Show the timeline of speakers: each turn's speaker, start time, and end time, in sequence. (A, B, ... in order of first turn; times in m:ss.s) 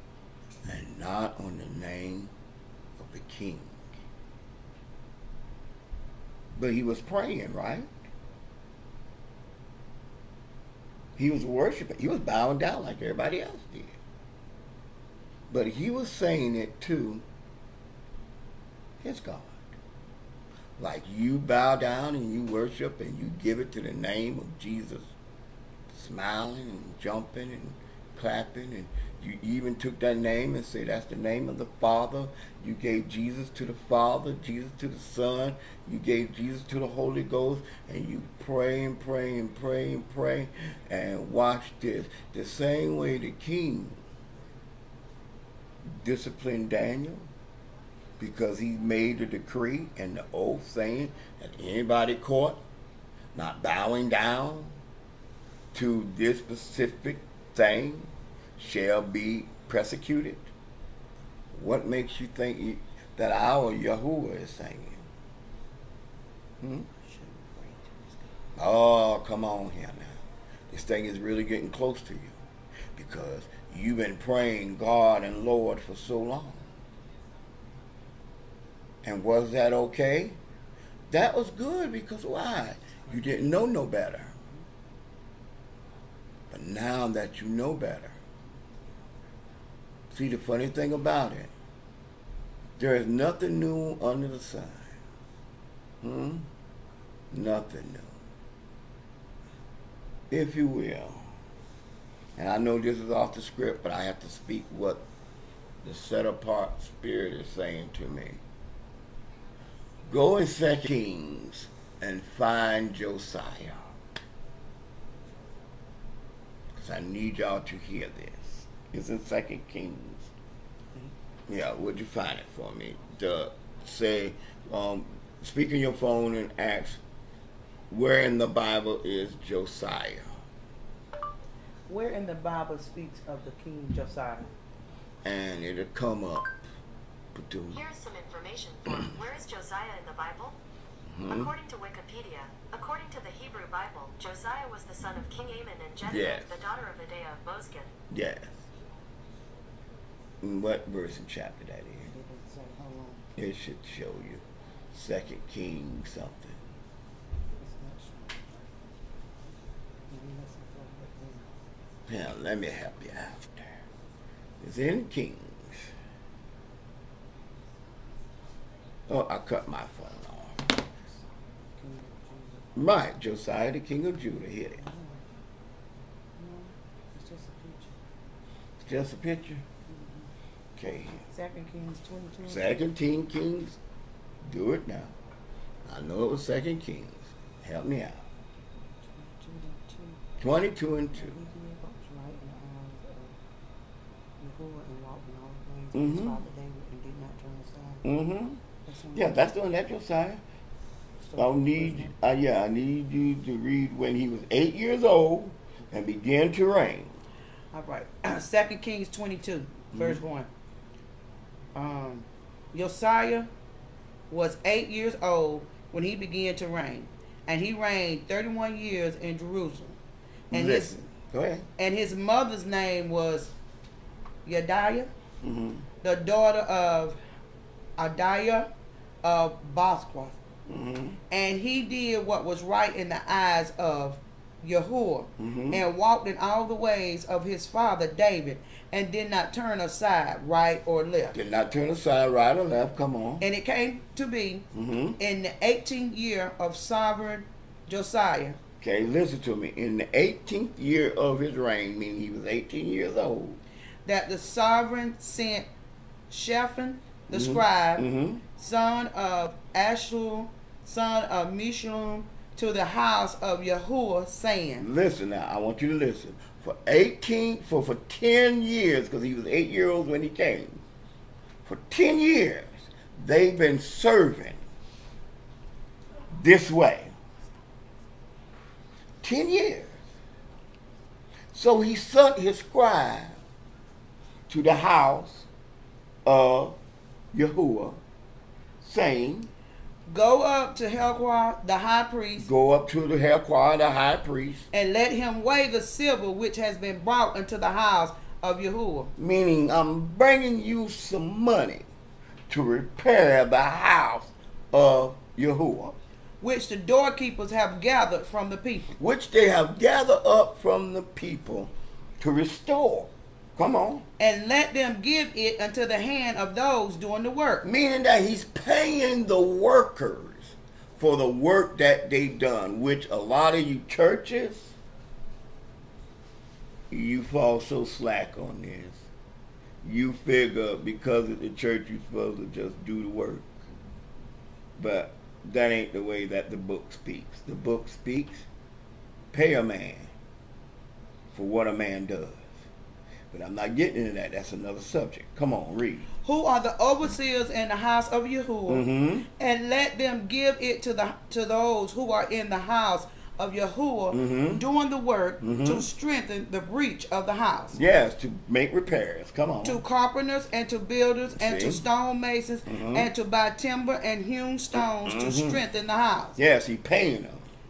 0:00.6-0:02.3 A
0:03.0-0:03.9 A
0:06.6-0:07.9 A
0:11.2-0:14.0 A
0:15.5-0:17.2 A
0:19.0-0:19.6 A
0:20.8-0:25.1 A
0:25.9-0:44.0 A
0:45.8-0:47.3 A
0:48.2-0:52.6 A
0:53.3-0:54.8 A
0:55.7-1:00.5 A
1:01.5-1:05.0 A
1:06.9-1:08.3 B
1:08.6-1:10.2 A
1:10.7-1:12.4 A
1:12.9-1:16.7 A
1:19.0-1:20.4 A
1:21.1-1:24.3 A
1:26.5-1:28.2 A
1:30.1-1:31.5 A
1:32.8-1:34.9 A
1:36.0-1:36.5 A
1:37.3-1:38.2 A
1:40.3-1:41.3 A
1:42.4-1:45.0 A
1:45.8-1:48.4 A
1:50.1-1:53.9 A
1:56.8-2:00.3 A
2:01.5-2:07.0 A
2:07.9-2:10.3 A
2:11.9-2:14.5 B
2:15.2-2:16.6 A
2:17.3-2:17.8 A
2:17.7-2:20.6 C
2:21.1-2:21.5 A
2:21.3-2:27.9 C
2:26.0-2:26.5 A
2:28.1-2:28.6 A
2:30.4-2:32.1 A
2:32.1-2:33.3 B
2:33.4-2:36.6 A
2:37.6-2:38.4 B
2:40.1-2:41.5 B
2:42.1-2:43.7 A
2:44.6-2:45.9 A
2:49.1-2:50.7 A
2:51.7-2:52.7 B
2:52.8-2:54.8 A
2:54.8-2:55.3 B
2:56.4-2:58.0 B
2:58.8-2:59.6 A
2:59.8-3:00.3 B
3:00.8-3:01.2 A
3:01.3-3:02.7 B
3:02.4-3:03.8 A
3:04.4-3:05.1 A
3:05.8-3:08.2 A
3:09.1-3:10.2 B
3:10.4-3:11.4 A
3:11.2-3:13.4 B
3:14.4-3:18.0 B
3:15.9-3:16.4 A
3:18.0-3:18.6 A
3:18.8-3:19.4 B
3:19.1-3:20.4 A
3:21.2-3:22.1 B
3:21.4-3:27.2 A
3:27.7-3:30.5 B
3:29.9-3:30.2 A
3:31.7-3:33.5 B
3:34.3-3:40.0 B
3:40.5-3:40.9 B
3:40.5-3:41.7 A
3:41.8-3:43.5 B
3:44.4-3:45.1 B
3:45.4-3:45.8 A
3:46.0-3:47.2 B
3:48.0-3:48.7 B
3:49.2-3:50.4 B
3:50.7-3:51.2 A
3:51.3-4:01.4 B
3:55.4-3:55.8 A
4:01.3-4:03.4 A
4:03.4-4:04.6 B
4:04.7-4:05.2 A
4:05.2-4:08.6 B
4:08.8-4:13.6 A
4:14.0-4:15.7 B
4:16.3-4:18.0 B
4:17.3-4:18.4 A
4:18.6-4:24.9 B
4:24.8-4:30.8 A
4:31.6-4:34.6 A
4:36.3-4:37.1 A
4:39.2-4:40.0 A
4:41.5-4:43.4 A
4:44.5-4:45.5 A
4:46.2-4:46.8 A
4:47.3-4:48.0 A
4:48.8-4:49.5 A
4:50.1-4:52.5 B
4:52.4-4:54.7 A
4:54.7-4:59.1 B
4:59.2-5:01.8 A
5:02.5-5:06.0 A
5:06.4-5:08.9 B
5:09.0-5:14.0 A
5:14.2-5:17.6 B
5:17.6-5:24.7 A
5:26.9-5:29.1 A
5:29.8-5:33.5 A
5:34.8-5:38.4 A
5:39.3-5:40.1 A
5:41.3-5:42.6 A
5:43.3-5:46.1 A
5:46.2-5:57.8 B
5:48.7-5:49.3 A
5:54.1-5:54.6 A
5:55.4-5:55.8 A
5:57.7-5:59.8 A
5:59.6-6:06.4 B
6:01.3-6:01.8 A
6:02.7-6:03.1 A
6:05.0-6:05.6 A
6:06.4-6:07.4 A